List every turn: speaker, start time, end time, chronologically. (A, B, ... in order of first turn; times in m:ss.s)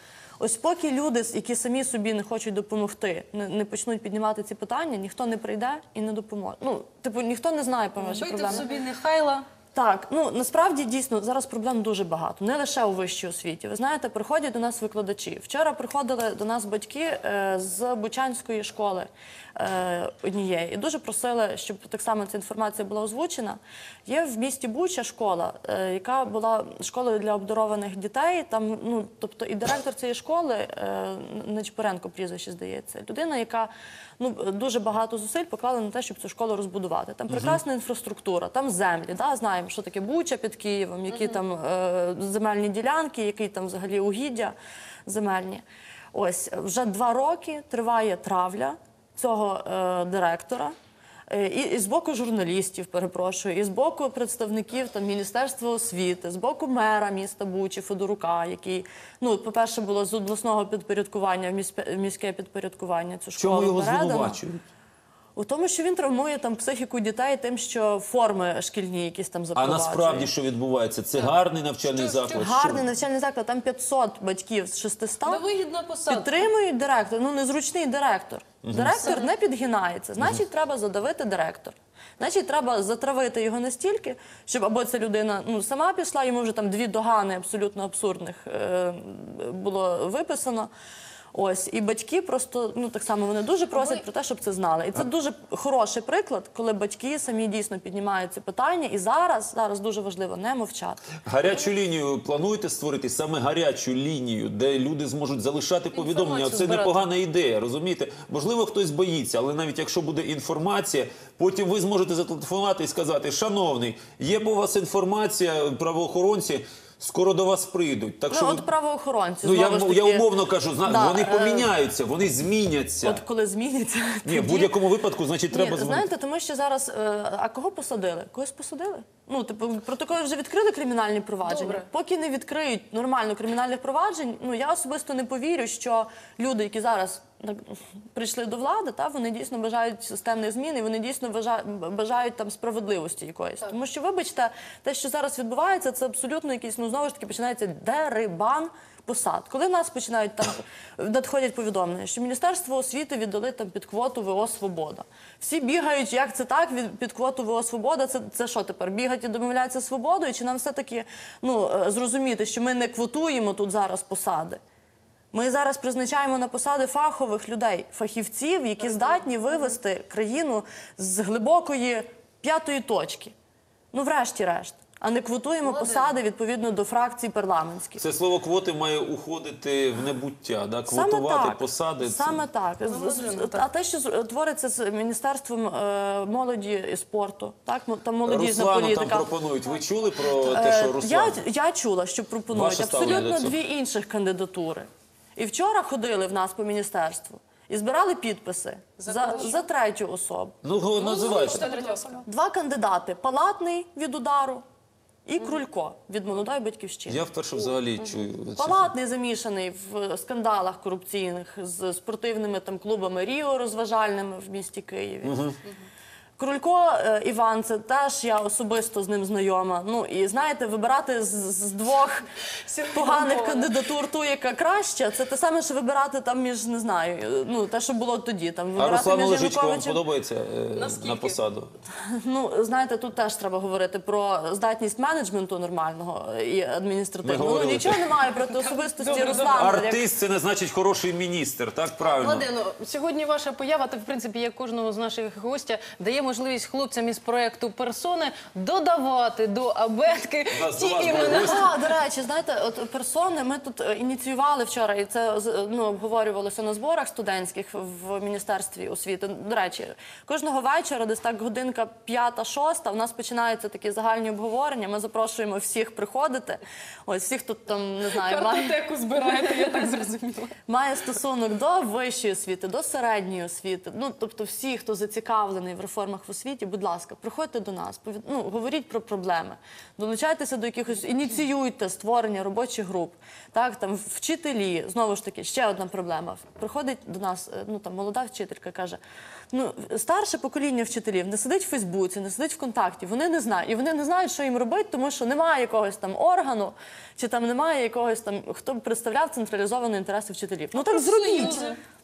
0:00.4-0:08.6 A
0:08.1-0:09.4 B
0:09.7-0:44.5 A
0:37.3-0:37.6 C
0:45.0-0:45.6 A
0:46.1-0:50.7 A
0:51.3-1:04.4 A
1:03.4-1:04.6 C
1:05.4-1:10.3 A
1:09.5-1:12.8 C
1:11.8-1:12.5 B
1:12.4-1:15.4 A
1:15.2-1:16.4 B
1:16.1-1:30.7 A
1:18.6-1:19.0 C
1:31.3-1:41.1 A
1:41.2-1:58.6 C
1:45.9-1:47.0 B
1:58.3-2:00.3 A
1:59.4-2:03.2 C
2:00.8-2:01.7 A
2:03.0-2:04.7 A
2:04.2-2:06.1 C
2:05.5-2:44.6 A
2:11.4-2:11.8 B
2:45.3-2:53.3 A
2:53.9-2:58.0 A
2:55.6-2:56.1 B
2:58.0-3:02.4 C
3:00.9-3:09.3 A
3:02.8-3:03.7 B
3:08.2-3:11.4 C
3:10.4-3:20.6 A
3:12.5-3:13.6 C
3:19.0-3:19.6 B
3:20.6-3:21.7 C
3:21.0-3:22.2 B
3:22.2-3:24.6 A
3:25.2-3:27.3 A
3:27.1-3:28.9 C
3:28.6-3:35.5 A
3:35.2-3:35.6 C
3:36.4-3:42.2 A
3:42.6-3:43.7 B
3:42.9-3:50.0 A
3:48.8-3:51.7 C
3:50.7-3:51.4 B
3:52.2-4:00.0 A
3:57.2-3:58.1 C
3:58.4-3:59.6 B
3:59.5-4:02.5 C
4:02.1-4:11.7 B
4:10.5-4:11.8 C
4:11.4-4:28.8 A
4:28.1-4:30.5 B
4:30.7-4:49.0 A
4:49.5-5:01.7 A
5:00.7-5:01.8 B